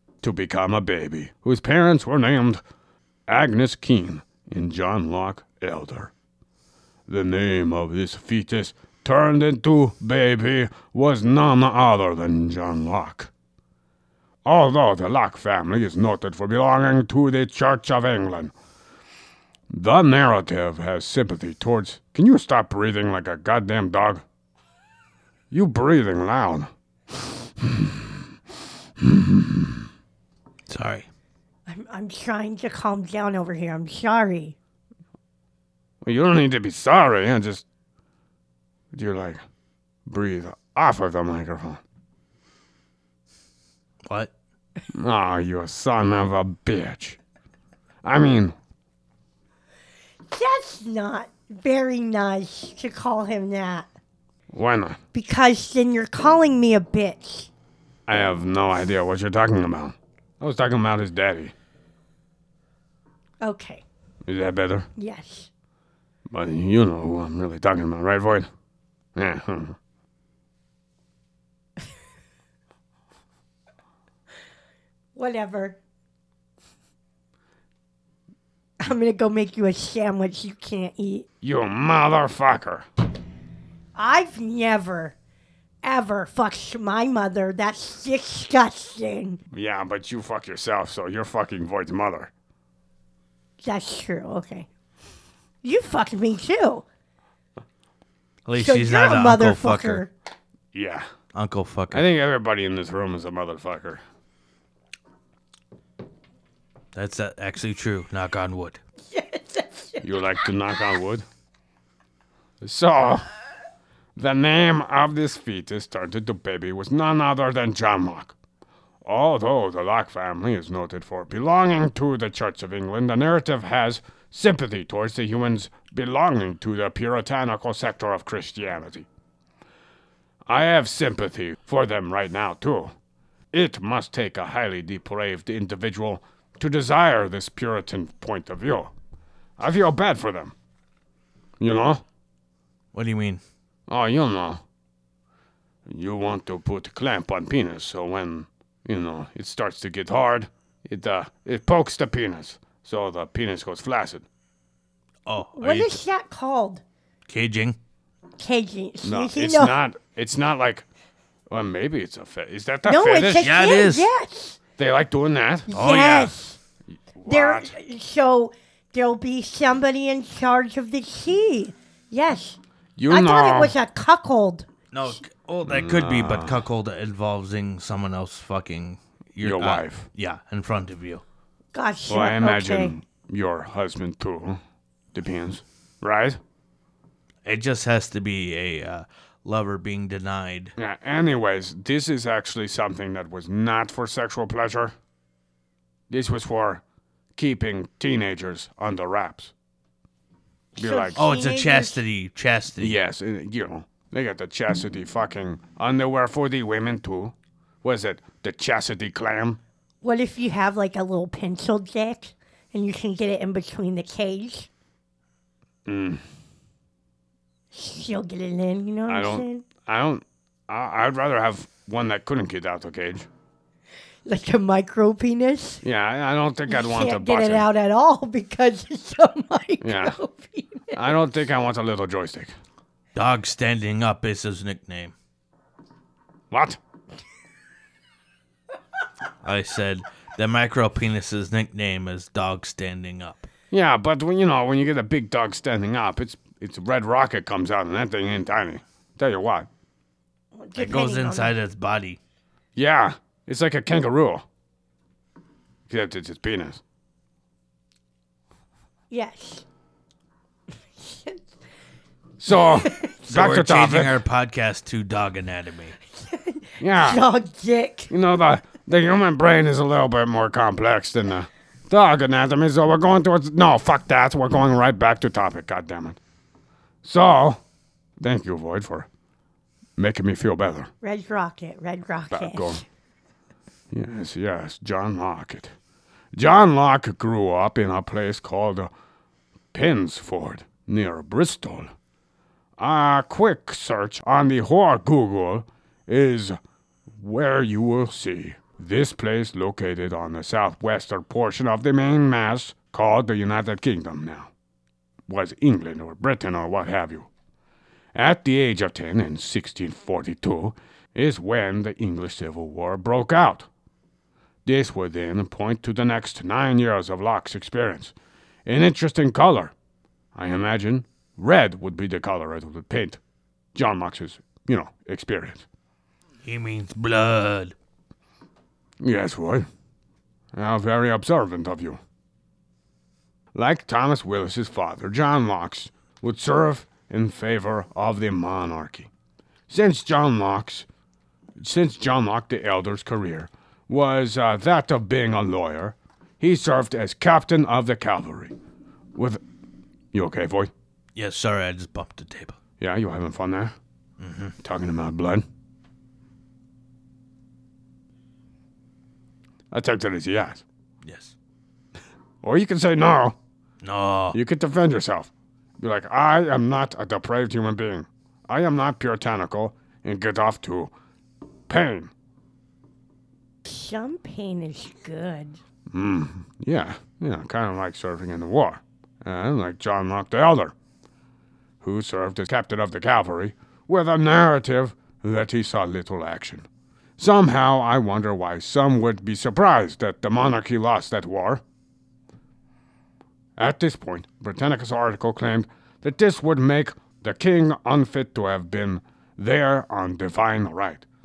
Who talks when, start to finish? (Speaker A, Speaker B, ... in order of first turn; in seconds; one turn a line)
Speaker A: 0.2-2.6
Speaker A: 3.3-6.1
Speaker A: 7.1-13.3
Speaker A: 14.4-18.5
Speaker A: 19.7-24.2
Speaker A: 25.5-28.2
Speaker A: 29.0-29.9
Speaker B: 30.7-31.1
Speaker C: 31.7-34.6
Speaker A: 36.0-37.6
Speaker A: 38.9-39.4
Speaker A: 40.1-41.8
Speaker B: 44.1-44.3
Speaker A: 44.9-47.2
Speaker A: 48.0-48.6
Speaker C: 50.3-53.9
Speaker A: 54.5-55.0
Speaker C: 55.1-57.5
Speaker A: 58.1-61.5
Speaker C: 63.4-63.8
Speaker A: 64.2-64.9
Speaker C: 65.0-65.5
Speaker A: 66.3-68.5
Speaker A: 69.2-69.8
Speaker C: 75.2-75.8
Speaker C: 78.8-81.3
Speaker A: 81.4-82.9
Speaker C: 84.0-85.2
Speaker C: 85.8-89.4
Speaker A: 89.5-92.3
Speaker C: 93.6-94.7
Speaker C: 95.6-96.8
Speaker B: 98.5-100.0
Speaker C: 98.5-100.1
Speaker A: 100.7-101.1
Speaker B: 101.3-102.0
Speaker A: 101.9-104.0
Speaker B: 107.0-108.8
Speaker C: 109.1-110.4
Speaker A: 110.0-111.2
Speaker A: 112.6-113.3
Speaker A: 114.2-118.3
Speaker A: 119.0-129.1
Speaker A: 130.5-132.9
Speaker A: 133.5-138.9
Speaker A: 139.6-140.5
Speaker A: 141.6-142.0
Speaker B: 142.9-143.4
Speaker A: 143.9-144.6
Speaker A: 145.9-154.3
Speaker B: 155.3-156.0
Speaker C: 155.6-156.8
Speaker B: 157.3-157.8
Speaker C: 158.4-159.8
Speaker A: 159.0-160.9
Speaker A: 161.5-163.6
Speaker C: 162.9-164.6
Speaker B: 163.4-164.1
Speaker A: 164.8-165.7
Speaker C: 165.7-166.6
Speaker B: 165.7-166.3
Speaker A: 167.2-167.7
Speaker C: 167.3-174.7
Speaker A: 173.0-173.8
Speaker B: 174.9-181.2
Speaker A: 175.7-176.6
Speaker A: 179.4-180.1
Speaker C: 181.7-182.9
Speaker A: 182.1-184.6
Speaker A: 185.1-186.4
Speaker B: 187.4-190.7
Speaker A: 190.8-194.9
Speaker A: 196.1-196.8
Speaker A: 197.4-199.5
Speaker C: 200.8-202.0
Speaker A: 200.8-201.2
Speaker B: 201.2-203.0
Speaker A: 202.8-209.6
Speaker C: 210.0-214.7
Speaker A: 215.9-216.2
Speaker C: 217.7-219.7
Speaker A: 219.1-223.3
Speaker C: 224.3-225.8
Speaker A: 225.8-227.7
Speaker C: 226.7-231.1
Speaker A: 229.8-230.2
Speaker A: 230.9-232.5
Speaker B: 233.2-235.1
Speaker A: 236.5-236.8
Speaker B: 239.4-243.5
Speaker A: 243.7-249.7
Speaker C: 250.5-251.6
Speaker B: 250.8-252.2
Speaker A: 252.8-254.4
Speaker A: 255.9-256.8
Speaker C: 259.1-259.6
Speaker C: 261.0-261.4
Speaker A: 262.4-264.2
Speaker C: 262.6-263.1
Speaker B: 263.3-266.0
Speaker C: 266.1-268.1
Speaker A: 266.8-267.2
Speaker A: 268.1-276.2
Speaker A: 277.0-277.6
Speaker A: 278.2-279.1
Speaker A: 280.0-280.9
Speaker C: 281.0-282.8
Speaker A: 282.3-282.8
Speaker A: 283.9-285.7
Speaker A: 286.3-288.9
Speaker A: 289.7-291.9
Speaker A: 292.8-296.6
Speaker A: 297.2-304.5
Speaker A: 305.3-307.3
Speaker A: 308.1-313.7
Speaker A: 314.6-318.1
Speaker A: 318.7-319.7
Speaker A: 320.4-323.2
Speaker A: 323.8-325.7
Speaker B: 326.4-327.7
Speaker A: 329.0-329.7
Speaker A: 330.5-332.0
Speaker A: 333.5-339.1
Speaker A: 339.7-340.9
Speaker A: 341.6-348.5
Speaker A: 349.1-349.4
Speaker A: 350.1-350.7
Speaker B: 351.2-352.6
Speaker A: 352.8-353.8
Speaker B: 354.2-354.6
Speaker A: 354.6-355.4
Speaker A: 359.7-360.6
Speaker B: 361.0-361.4
Speaker A: 362.4-363.4
Speaker B: 363.8-364.4
Speaker A: 364.3-370.9
Speaker A: 371.7-372.1
Speaker C: 373.6-375.6
Speaker A: 375.9-380.7
Speaker A: 381.8-386.7
Speaker A: 387.2-391.6
Speaker A: 393.6-401.1